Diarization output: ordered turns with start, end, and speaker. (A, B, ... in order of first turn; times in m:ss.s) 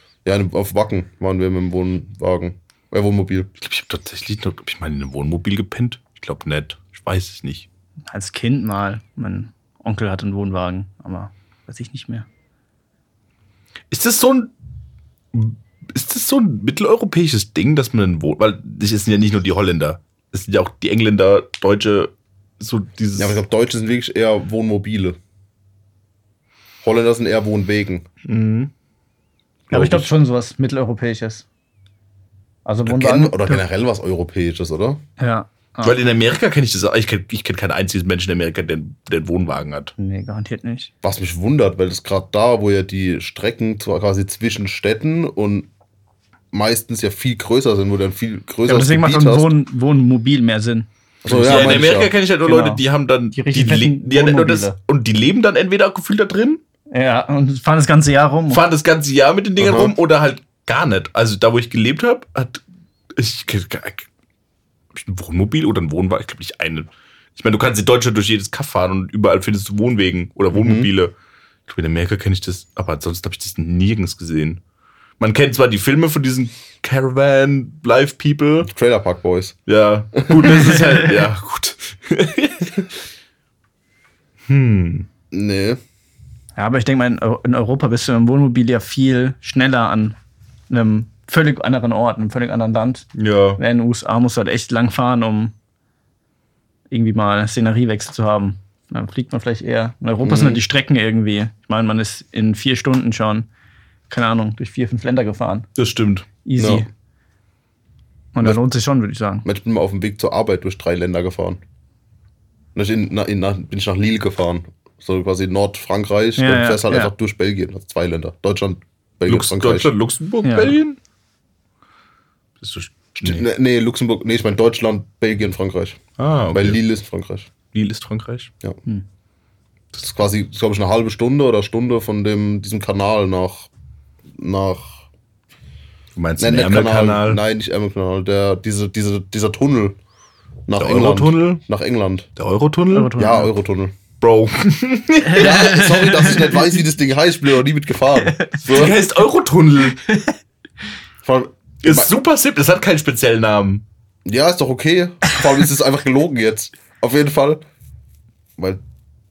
0:00.2-0:03.5 A
0:03.6-0:07.7 B
0:08.1-0:12.3 C
0:13.9-0:14.5 B
0:15.3-0:23.4 B
0:23.2-0:25.2 A
0:26.8-0:28.0 A
0:28.2-0:28.7 B
0:29.7-0:30.1 A
0:29.7-0:31.4 C
0:32.6-0:33.6 C
0:32.9-0:35.0 A
0:35.2-0:36.0 C
0:35.8-0:39.9 B
0:40.0-0:40.9 C
0:41.0-0:45.7 A
0:46.5-0:49.5 A
0:48.7-0:52.8 C
0:51.2-0:52.1 A
0:51.3-0:56.6 B
0:53.3-0:54.8 C
0:56.9-0:58.7 C
0:58.5-1:02.6 B
0:59.6-0:59.9 A
1:03.2-1:04.1 B
1:04.9-1:11.1 B
1:10.5-1:10.9 A
1:11.7-1:14.6 B
1:15.2-1:18.7 B
1:18.7-1:19.6 A
1:19.7-1:22.9 B
1:20.2-1:20.8 A
1:24.5-1:25.1 B
1:25.3-1:25.8 A
1:26.6-1:30.2 C
1:30.7-1:35.5 C
1:33.2-1:33.6 B
1:36.9-1:43.5 C
1:40.2-1:40.6 A
1:44.1-1:45.7 C
1:45.8-1:46.3 B
1:46.4-1:46.9 C
1:46.6-1:46.8 A
1:48.4-1:49.5 C
1:49.4-1:51.6 A
1:52.8-1:59.9 A
1:56.4-1:57.1 C
1:59.3-2:01.0 B
2:00.4-2:00.8 C
2:02.6-2:03.5 B
2:03.2-2:06.0 A
2:06.2-2:06.8 B
2:06.5-2:07.5 A
2:07.7-2:08.5 B
2:09.9-2:13.7 A
2:14.4-2:15.0 A
2:16.2-2:17.4 B
2:16.4-2:20.0 A
2:20.7-2:22.3 A
2:20.8-2:21.6 B
2:22.4-2:23.1 B
2:22.9-2:23.5 C
2:23.2-2:23.9 A
2:24.2-2:25.9 B
2:25.3-2:26.7 C
2:25.4-2:29.0 A
2:28.2-2:28.6 C
2:28.6-2:30.0 B
2:30.1-2:30.3 C
2:31.2-2:32.1 A
2:31.8-2:33.8 B
2:34.3-2:37.6 A